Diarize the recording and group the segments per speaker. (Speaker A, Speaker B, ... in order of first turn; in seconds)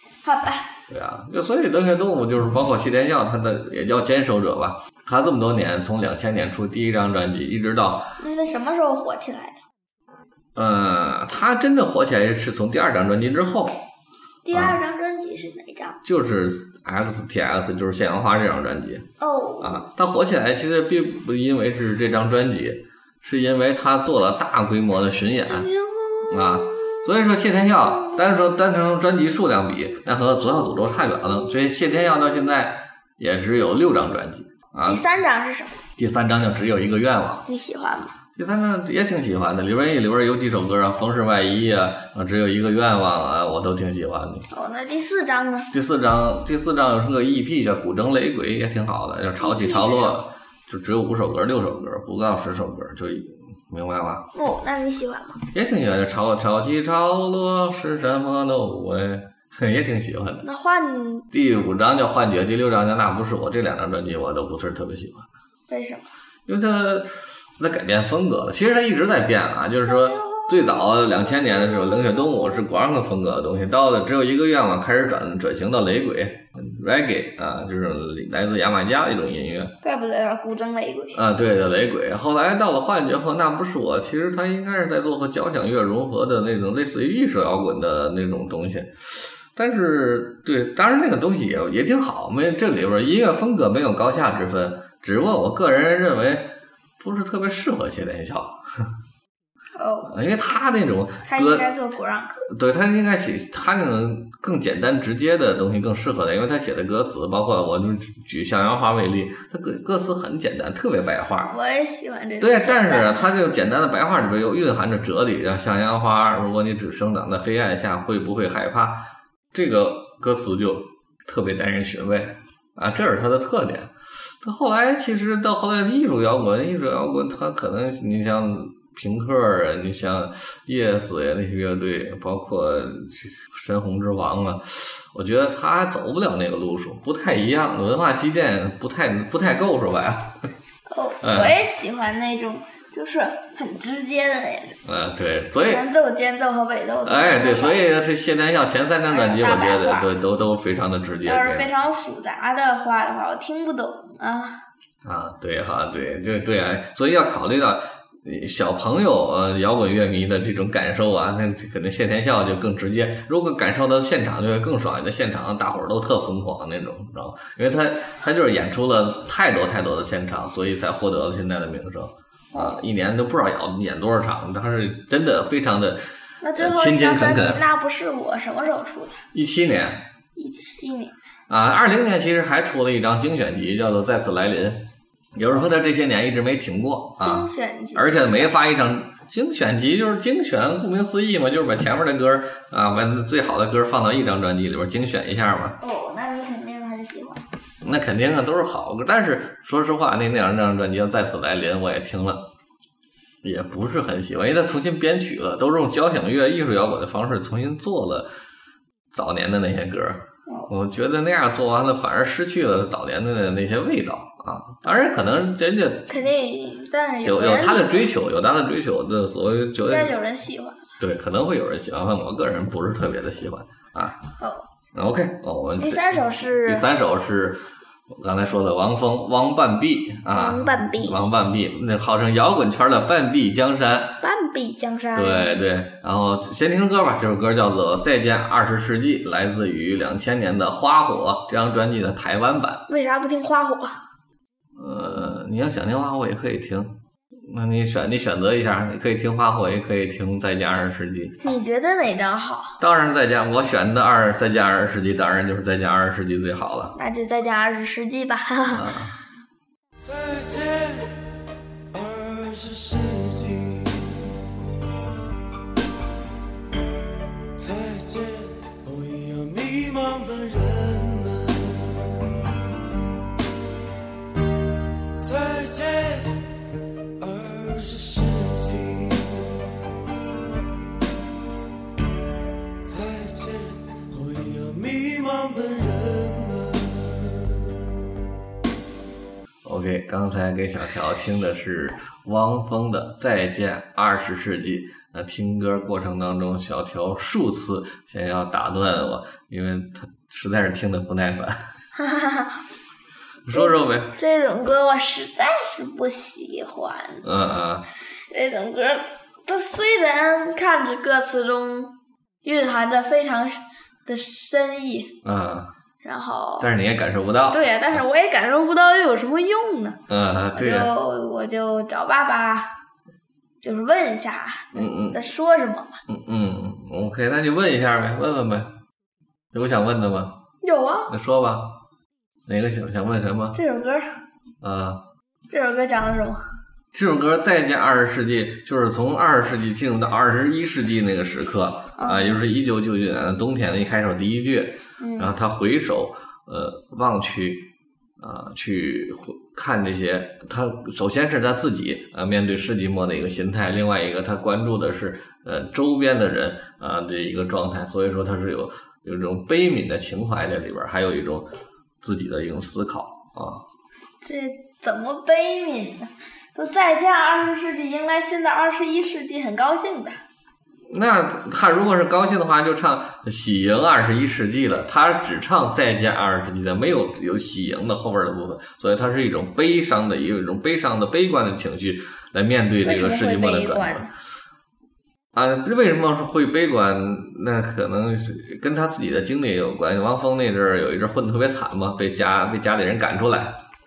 Speaker A: 0.2-0.7, 8.2-9.6, 14.4-16.0, 19.2-19.8, 25.4-27.1, 27.9-28.2, 34.8-35.8, 37.5-38.1, 44.5-45.7, 49.4-50.1, 54.3-55.4, 60.4-61.3, 65.7-66.1, 69.8-72.4, 79.8-81.2, 99.8-100.1, 101.2-102.4, 111.5-113.2, 140.9-144.8, 145.5-147.8, 149.1-150.1, 151.2-154.6, 172.5-172.8, 176.4-179.2, 180.3-181.2, 187.2-188.6, 195.8-197.4, 216.1-218.1, 219.8-220.8, 224.4-224.6, 225.8-226.8, 230.3-231.2, 234.2-235.6, 242.9-244.0, 251.4-252.8, 256.9-258.9, 301.9-302.6, 303.5-307.2, 308.1-315.2, 316.0-316.7, 317.5-320.0, 320.5-322.7, 323.6-326.0, 330.6-331.1, 333.5-334.2, 335.5-336.4, 342.0-342.4, 345.0-345.3, 364.2-370.2, 382.8-384.1
Speaker B: 0.9-8.1, 10.5-13.8, 14.5-14.8, 16.0-19.1, 19.6-25.7, 26.3-35.0, 36.0-37.4, 38.4-44.5, 45.7-54.2, 55.5-60.4, 61.3-65.3, 66.5-79.7, 81.1-98.9, 100.1-101.7, 102.4-111.5, 112.4-140.4, 141.2-141.6, 144.8-145.8, 147.0-151.7, 155.0-176.0, 176.6-177.6, 179.3-180.0, 181.5-184.8, 185.3-195.8, 197.8-202.4, 203.4-208.3, 209.1-216.2, 217.2-220.1, 221.0-224.2, 224.9-226.0, 226.6-234.2, 235.1-242.8, 244.8-251.3, 252.8-256.9, 258.7-259.1, 289.6-301.7, 303.4-304.1, 307.2-307.9, 315.2-315.7, 316.6-318.0, 320.1-320.9, 324.7-325.2, 326.1-328.7, 329.5-330.3, 331.1-331.7, 332.5-333.6, 334.6-335.0, 336.9-347.7, 348.2-361.5, 362.0-363.6, 370.9-384.1, 385.3-393.6
Speaker C: 260.0-261.2, 261.9-264.4, 267.5-272.4, 275.2-276.5, 277.2-279.8, 282.8-287.9